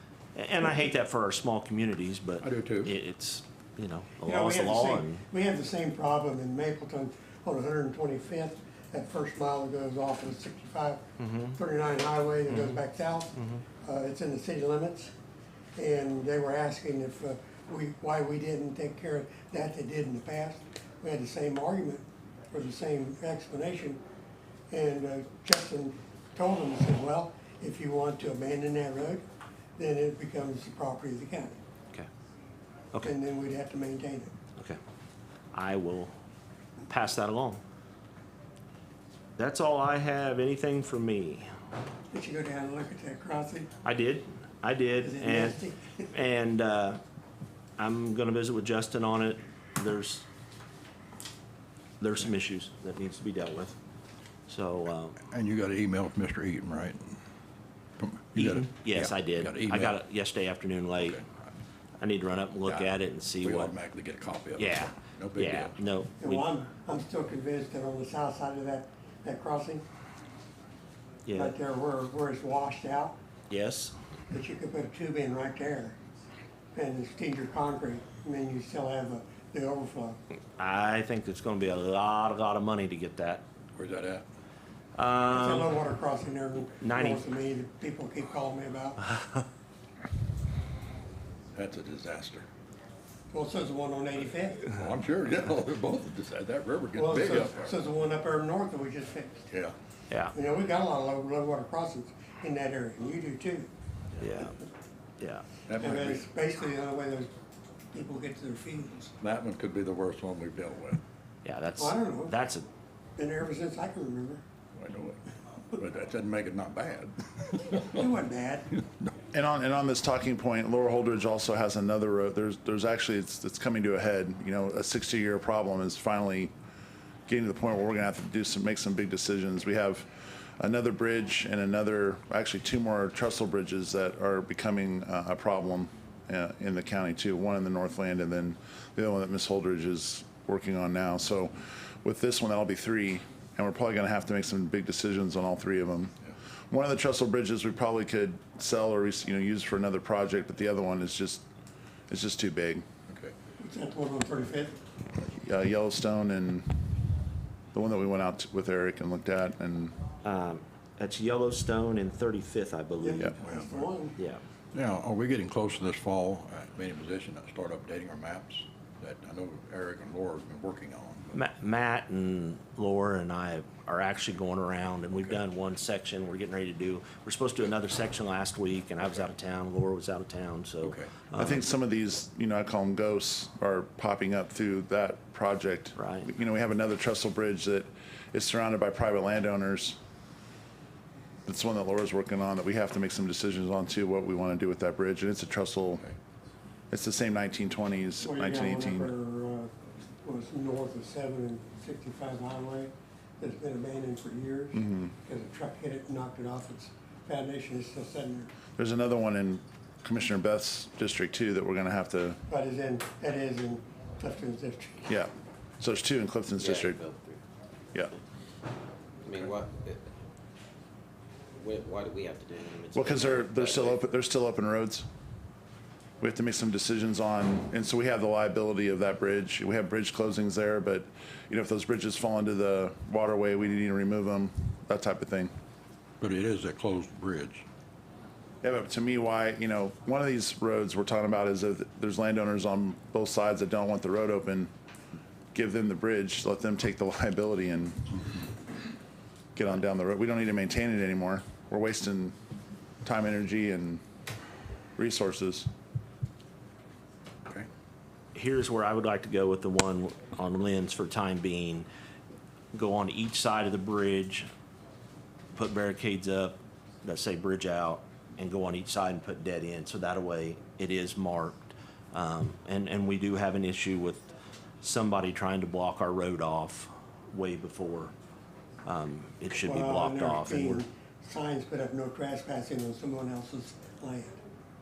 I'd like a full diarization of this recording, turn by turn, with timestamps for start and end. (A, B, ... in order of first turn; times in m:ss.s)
0:00.3-0:05.2 A
0:02.4-0:02.9 B
0:04.2-0:15.1 C
0:11.2-0:11.6 A
0:12.5-0:12.8 A
0:13.4-0:13.6 A
0:15.8-0:24.0 C
0:24.7-0:29.2 C
0:29.8-0:31.6 C
0:33.0-0:34.3 C
0:35.5-0:36.1 A
0:36.9-0:37.6 A
0:39.4-0:41.5 A
0:42.1-0:43.7 C
0:43.8-0:45.6 A
0:45.0-0:46.1 C
0:46.1-0:47.0 A
0:47.8-0:50.2 A
0:52.0-0:53.8 A
0:54.5-0:55.2 A
0:55.3-0:57.1 B
0:58.0-1:00.0 B
0:58.4-1:01.2 A
1:02.0-1:03.7 A
1:03.4-1:05.7 B
1:04.6-1:06.5 A
1:06.2-1:09.8 C
1:11.2-1:11.6 A
1:11.3-1:13.2 C
1:13.5-1:13.9 A
1:14.3-1:16.0 C
1:16.7-1:20.2 C
1:20.6-1:23.4 A
1:23.7-1:24.2 B
1:25.0-1:25.7 A
1:25.3-1:29.1 C
1:26.8-1:27.2 A
1:31.5-1:32.5 B
1:33.3-1:34.7 C
1:34.7-1:37.8 B
1:36.9-1:39.5 C
1:40.1-1:40.3 A
1:40.3-1:43.7 C
1:44.2-1:44.6 A
1:45.2-1:45.4 A
1:45.7-1:46.2 B
1:45.8-1:47.3 C
1:47.9-1:49.1 C
1:49.2-1:51.0 B
1:51.4-1:52.7 A
1:51.8-1:52.4 C
1:53.2-1:54.4 C
1:54.8-1:58.0 B
1:57.9-1:58.7 C
1:59.3-2:06.5 D
2:07.3-2:26.1 D
2:26.7-2:31.4 D
2:32.1-2:32.8 D
2:33.1-2:33.3 B
2:33.6-2:34.8 C
2:35.2-2:36.8 D
2:37.7-2:39.9 D
2:40.2-2:43.3 A
2:43.0-2:44.2 C
2:43.4-2:43.9 B
2:44.7-2:51.4 B
2:51.3-3:01.6 A
3:00.8-3:01.1 B
3:01.3-3:10.0 D
3:06.0-3:06.3 A
3:11.4-3:16.0 D
3:16.9-3:19.1 D
3:18.2-3:19.7 C
3:20.2-3:28.5 C
3:24.8-3:25.1 D
3:28.8-3:32.4 D
3:32.5-3:35.1 C
3:35.0-3:37.0 D
3:36.6-3:37.4 E
3:39.2-3:40.1 E
3:41.6-3:44.0 E
3:42.9-3:45.0 D
3:46.2-3:55.5 D
3:56.2-3:57.6 B
3:58.6-4:04.7 D
4:05.5-4:08.2 D
4:09.6-4:12.3 D
4:13.0-4:14.0 D
4:15.0-4:15.7 D
4:18.3-4:21.9 A
4:22.7-4:24.5 A
4:25.5-4:34.3 A
4:34.8-4:38.1 A
4:38.8-4:40.8 A
4:39.5-4:44.4 C